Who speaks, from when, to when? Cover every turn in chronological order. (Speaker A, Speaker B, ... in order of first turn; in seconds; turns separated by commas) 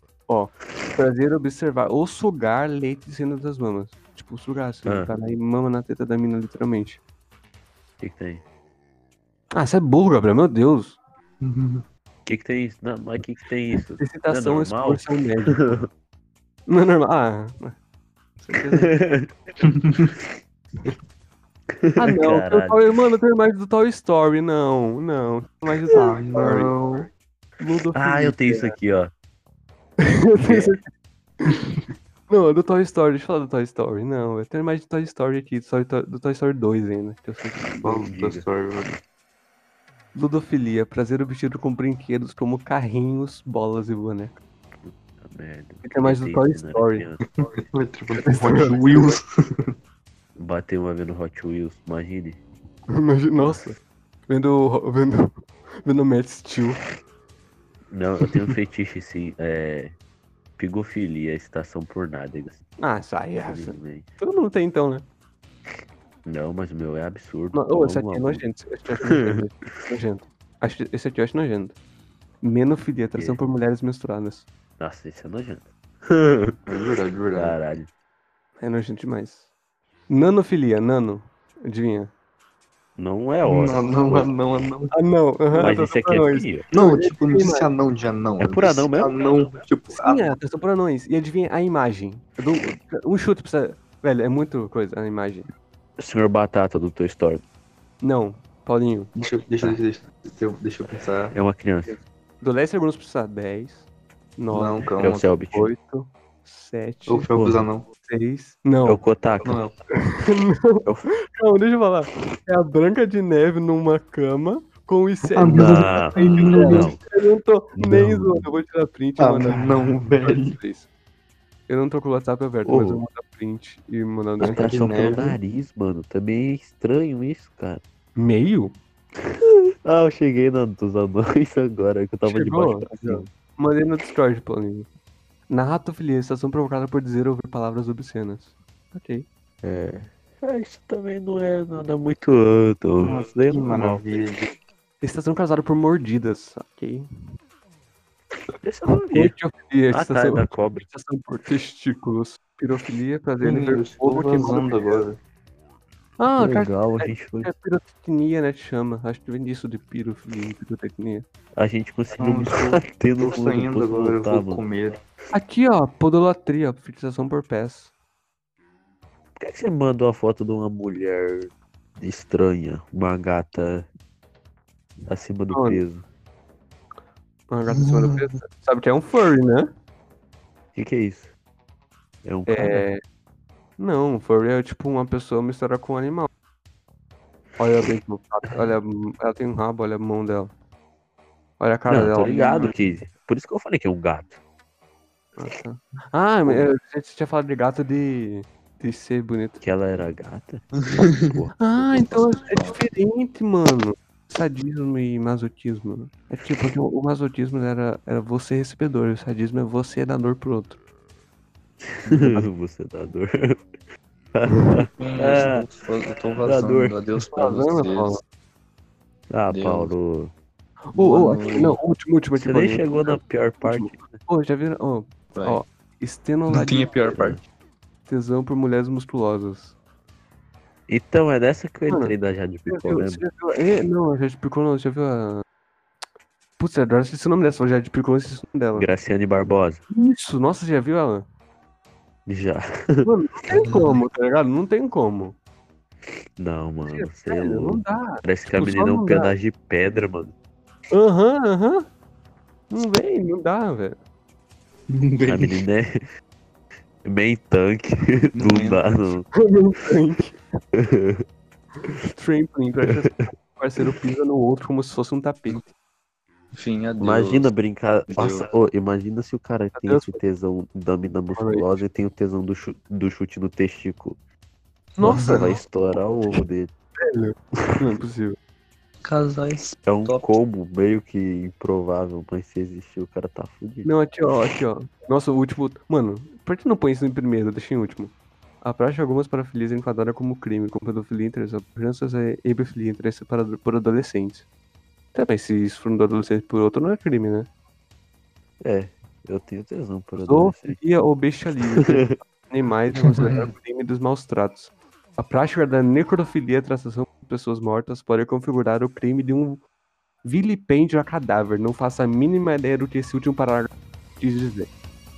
Speaker A: 0.3-7.0, Speaker B: 4.8-5.1, Speaker B: 8.0-8.4, Speaker A: 9.5-11.0, Speaker C: 11.4-11.9, Speaker B: 12.3-15.9, Speaker A: 14.0-15.6, Speaker A: 16.7-17.8, Speaker A: 18.4-19.0, Speaker B: 18.6-19.3, Speaker C: 19.6-20.1, Speaker B: 21.7-22.9, Speaker A: 22.0-26.7, Speaker C: 25.9-27.1, Speaker A: 27.6-28.7, Speaker B: 27.9-29.1, Speaker A: 30.0-30.9, Speaker B: 30.4-30.8, Speaker A: 32.3-37.8, Speaker B: 37.8-38.5, Speaker C: 37.8-38.9, Speaker A: 40.1-44.4, Speaker B: 44.9-47.3, Speaker A: 45.8-47.0, Speaker C: 47.4-49.7, Speaker A: 48.3-49.1, Speaker B: 50.4-52.4, Speaker A: 52.9-55.3, Speaker A: 55.8-56.8, Speaker B: 57.9-60.0, Speaker B: 60.6-62.7, Speaker A: 62.8-65.1, Speaker B: 63.4-64.1, Speaker B: 66.3-68.5, Speaker A: 67.5-71.8, Speaker B: 69.0-69.8, Speaker A: 72.4-74.5, Speaker B: 73.2-73.4, Speaker B: 74.8-76.6, Speaker C: 76.7-77.5, Speaker B: 77.3-77.9, Speaker A: 78.6-79.5, Speaker A: 80.1-82.1, Speaker B: 83.0-84.3, Speaker C: 83.5-84.9, Speaker A: 84.9-87.7, Speaker B: 85.6-86.7, Speaker C: 86.7-90.3, Speaker B: 88.4-89.1, Speaker A: 90.0-95.5, Speaker B: 96.0-97.4, Speaker A: 98.0-99.1, Speaker C: 99.2-101.3, Speaker B: 101.3-102.0, Speaker A: 101.9-104.9, Speaker C: 104.5-105.4, Speaker B: 105.0-105.7, Speaker A: 105.5-107.3, Speaker C: 107.1-107.8, Speaker B: 107.3-107.7, Speaker A: 108.0-109.0, Speaker B: 108.8-109.6, Speaker C: 109.4-109.8, Speaker A: 110.1-110.8, Speaker B: 110.9-111.1, Speaker A: 111.3-120.9, Speaker C: 115.2-116.9, Speaker B: 115.5-117.0, Speaker B: 117.8-118.5, Speaker C: 119.2-120.6, Speaker A: 121.7-124.7, Speaker B: 122.7-123.0, Speaker C: 124.4-125.4, Speaker B: 124.4-127.8, Speaker A: 128.2-128.8, Speaker B: 129.2-133.3, Speaker A: 132.2-134.9, Speaker A: 135.5-139.3, Speaker B: 139.6-144.1, Speaker C: 143.0-144.5, Speaker A: 145.0-147.1, Speaker B: 148.6-149.3, Speaker A: 149.1-154.7, Speaker B: 149.9-150.9, Speaker C: 153.4-155.2, Speaker A: 156.2-161.3, Speaker B: 156.4-157.5, Speaker B: 161.6-164.7, Speaker C: 162.2-165.0, Speaker A: 165.3-167.9, Speaker B: 169.4-173.9, Speaker B: 175.1-176.0, Speaker A: 175.5-175.8, Speaker A: 177.5-179.7, Speaker C: 177.8-178.2, Speaker B: 180.8-181.3, Speaker B: 182.2-182.9, Speaker A: 182.5-183.0, Speaker A: 183.8-186.3, Speaker A: 187.6-190.5, Speaker A: 191.6-192.7, Speaker B: 191.9-194.4, Speaker A: 195.4-199.6, Speaker B: 199.6-202.5, Speaker A: 201.6-210.8, Speaker B: 211.8-213.7, Speaker C: 212.1-212.4, Speaker B: 214.3-215.6, Speaker C: 215.0-218.2, Speaker B: 216.4-217.0, Speaker A: 217.3-218.2, Speaker B: 219.3-220.3, Speaker C: 219.5-219.9, Speaker A: 220.9-226.9, Speaker C: 220.9-221.8, Speaker B: 222.4-224.2, Speaker C: 225.3-225.6, Speaker C: 226.5-227.4, Speaker B: 227.1-227.4, Speaker A: 228.1-229.8, Speaker B: 230.9-233.2, Speaker A: 231.9-232.2, Speaker A: 232.7-235.4, Speaker A: 236.6-238.9, Speaker B: 238.7-239.8, Speaker A: 239.9-241.3, Speaker B: 242.3-243.1, Speaker A: 243.1-245.4, Speaker C: 243.6-244.0, Speaker B: 246.4-250.3, Speaker A: 246.9-249.3, Speaker A: 250.9-251.9, Speaker A: 252.7-254.0, Speaker C: 254.9-255.6, Speaker B: 255.3-256.0, Speaker B: 257.0-259.3, Speaker C: 258.3-258.8, Speaker A: 259.4-260.2, Speaker B: 260.2-261.2, Speaker A: 262.1-265.7, Speaker B: 262.9-263.3, Speaker C: 266.5-267.5, Speaker B: 267.0-274.2, Speaker C: 268.1-268.5, Speaker A: 269.8-270.2, Speaker A: 271.4-271.8, Speaker A: 275.0-275.6, Speaker C: 275.0-275.6, Speaker B: 275.0-276.7, Speaker A: 277.0-278.4, Speaker C: 279.0-280.3, Speaker B: 279.9-283.9, Speaker A: 283.9-294.5, Speaker A: 295.1-297.5, Speaker B: 298.6-300.8, Speaker A: 300.2-309.6, Speaker B: 301.6-302.2, Speaker C: 302.9-303.5, Speaker A: 310.2-314.7